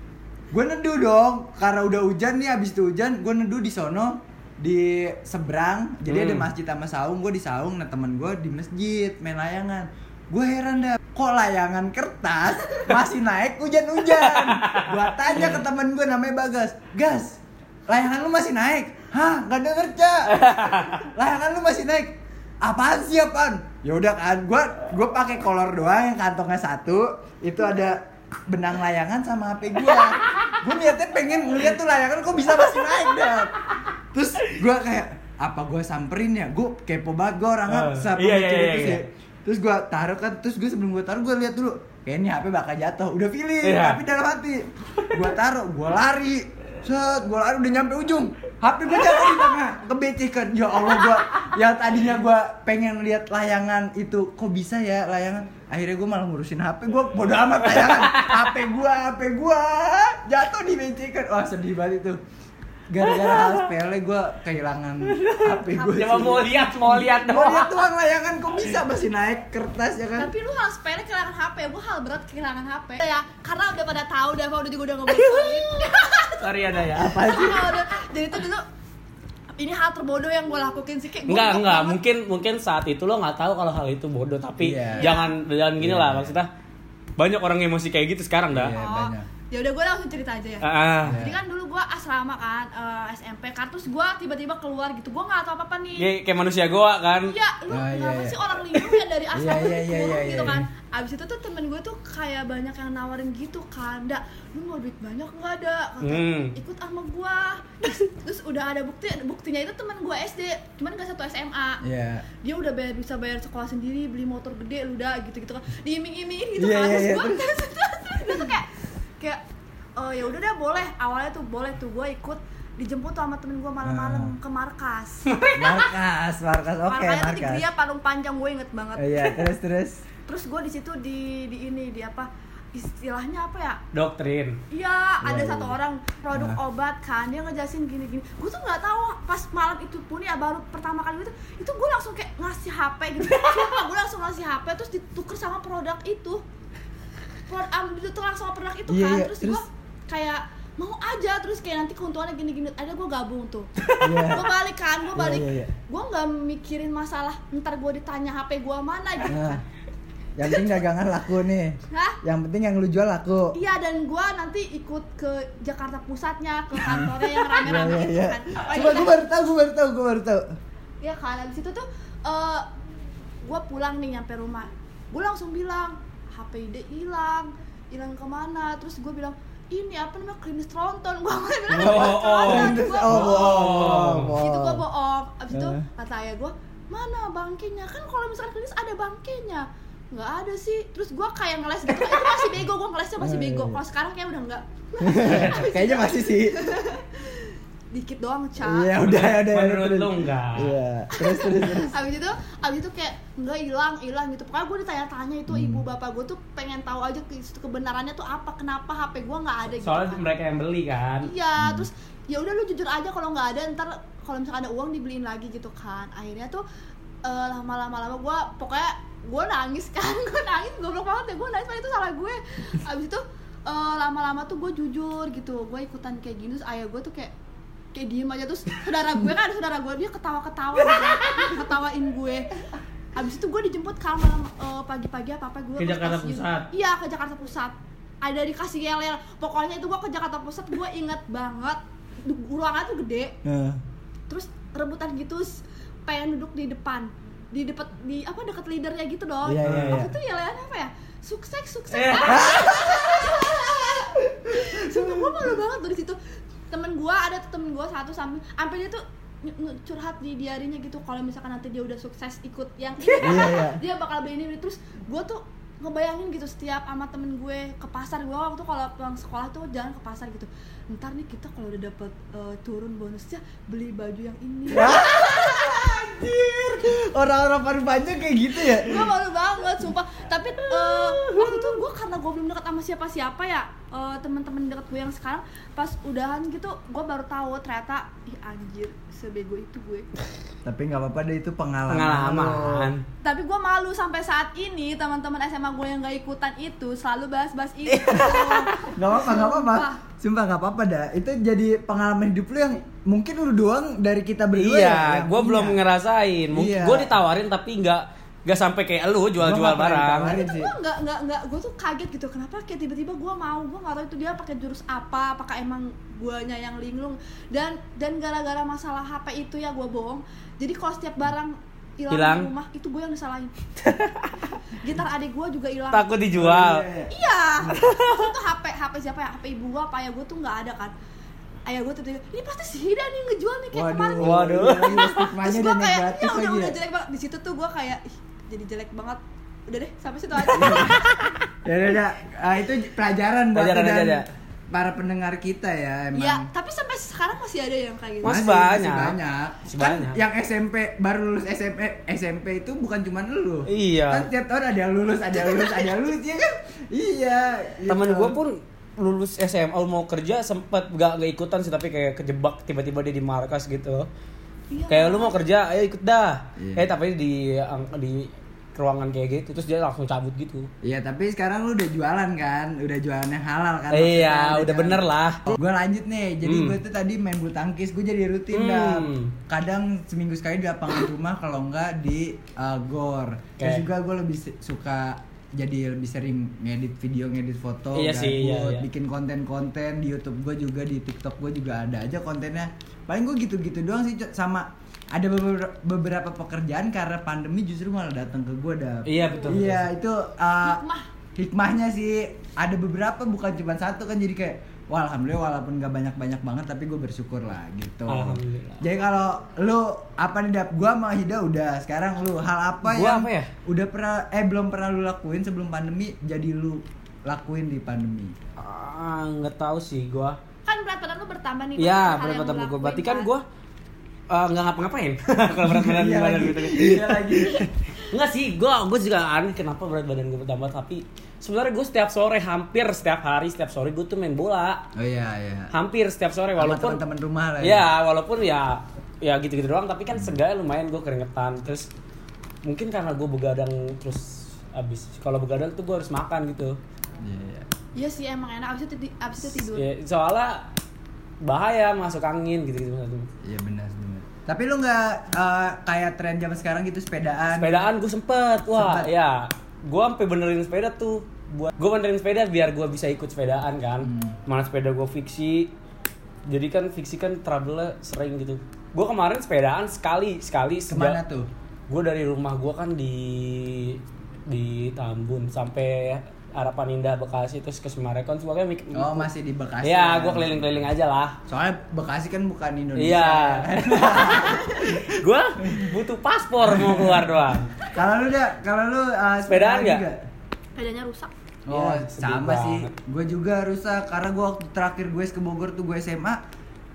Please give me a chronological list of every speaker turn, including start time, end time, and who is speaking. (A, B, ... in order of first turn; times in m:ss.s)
0:00.5-0:33.5 A
0:06.1-0:06.5 B
0:14.1-0:15.6 B
0:20.3-0:21.1 B
0:34.1-1:02.2 A
0:37.7-0:39.0 B
0:43.6-0:44.0 B
0:57.6-0:58.6 B
1:02.9-1:06.5 A
1:03.0-1:03.7 B
1:05.0-1:07.9 B
1:05.8-1:07.3 C
1:07.0-1:10.3 A
1:10.2-1:18.6 C
1:15.1-1:17.3 B
1:16.9-1:17.7 A
1:19.6-1:22.0 C
1:21.3-1:26.5 B
1:24.6-1:25.1 A
1:24.9-1:25.4 C
1:25.8-1:26.4 A
1:27.2-1:28.8 B
1:28.5-1:29.3 A
1:28.7-1:36.1 C
1:30.6-1:31.2 B
1:31.0-1:31.4 A
1:36.0-1:37.4 B
1:37.3-1:51.8 C
1:37.7-1:38.4 A
1:38.7-1:39.0 B
1:39.3-1:40.7 A
1:46.0-1:46.6 B
1:51.8-1:52.3 A
1:52.4-1:58.7 C
1:56.6-1:57.5 A
2:00.0-2:05.3 C
2:03.8-2:04.3 A
2:05.3-2:05.9 B
2:05.5-2:07.6 A
2:06.9-2:09.5 C
2:09.0-2:10.0 A
2:10.3-2:13.8 C
2:13.9-2:14.6 B
2:14.7-2:26.4 C
2:15.2-2:15.8 A
2:16.3-2:16.6 A
2:27.5-2:39.6 C
2:28.9-2:29.6 A
2:34.0-2:34.5 A
2:35.2-2:35.7 A
2:39.3-2:39.6 A
2:40.4-2:43.6 A
2:40.5-2:40.8 C
2:41.9-2:42.2 C
2:43.5-2:49.2 C
2:46.9-2:50.4 A
2:51.0-2:52.7 C
2:53.4-3:03.8 C
3:01.7-3:04.4 B
3:01.8-3:04.8 A
3:04.4-3:19.0 C
3:05.5-3:05.8 A
3:13.2-3:13.8 A
3:15.0-3:16.6 A
3:15.2-3:15.7 B
3:18.6-3:21.9 A
3:19.0-3:20.8 B
3:21.1-3:30.3 C
3:25.5-3:25.8 A
3:29.8-3:31.3 B
3:31.2-3:36.6 C
3:31.6-3:31.9 A
3:37.2-3:47.3 C
3:47.9-3:52.5 C
3:53.2-4:03.4 C
3:55.8-3:56.7 B
4:03.4-4:03.8 A
4:04.3-4:16.2 C
4:09.4-4:10.1 A
4:09.6-4:10.0 B
4:11.9-4:12.6 B
4:12.2-4:13.4 A
4:16.7-4:35.9 C
4:23.1-4:23.8 A
4:34.7-4:39.0 A
4:38.7-4:50.1 C
4:40.6-4:41.8 B
4:50.6-4:52.9 A
4:51.9-4:53.0 B
4:53.2-5:00.0 C
4:57.9-4:58.8 B
4:58.9-5:05.8 A
5:04.5-5:10.4 B
5:06.5-5:07.1 A
5:09.4-5:10.7 A
5:10.2-5:23.6 C
5:22.1-5:22.5 B
5:23.8-5:24.6 B
5:24.7-5:26.1 C
5:25.9-5:26.8 B
5:26.3-5:27.8 A
5:27.1-5:30.9 C
5:27.8-5:28.3 B
5:31.7-5:41.4 C
5:33.7-5:36.8 A
5:34.2-5:35.3 B
5:40.5-5:41.0 A
5:41.6-5:46.5 A
5:43.5-5:44.3 B
5:46.2-5:48.5 C
5:48.2-5:50.2 B
5:48.2-5:58.4 A
5:53.7-5:54.3 B
5:55.4-5:56.0 C
5:57.9-6:04.1 B
6:04.7-6:05.4 C
6:04.9-6:10.7 B
6:06.6-6:06.9 A
6:10.8-6:40.8 A
6:13.9-6:15.6 B
6:16.4-6:16.8 B
6:18.5-6:19.4 B
6:23.6-6:23.9 B
6:27.9-6:28.9 B
6:39.0-6:39.9 B
6:39.2-6:39.7 C
6:40.6-6:41.1 C
6:41.4-6:58.4 A
6:48.1-6:48.8 B
6:52.8-6:53.5 B
6:58.6-7:00.4 B
7:00.7-7:03.3 C
7:01.8-7:03.4 B
7:04.3-7:07.3 B
7:05.6-7:07.7 A
7:08.0-7:14.9 B
7:15.0-7:15.7 A
7:15.7-7:17.0 B
7:16.6-7:17.9 A
7:17.6-7:21.9 B
7:22.6-7:26.8 B
7:27.2-7:27.7 A
7:28.0-7:29.9 C
7:29.6-7:30.7 B
7:31.4-7:33.3 B
7:33.4-7:37.9 A
7:37.6-7:45.7 B
7:38.7-7:39.1 A
7:44.0-7:44.4 A
7:46.5-7:51.2 B
7:50.9-7:51.5 A
7:51.9-7:59.3 B
7:58.9-8:00.8 A
7:59.8-8:01.4 B
8:01.5-8:05.9 A
8:03.0-8:07.7 B
8:06.6-8:07.3 A
8:07.8-8:10.2 A
8:09.5-8:10.1 B
8:10.8-8:11.3 C
8:11.7-8:16.4 A
8:11.7-8:12.9 B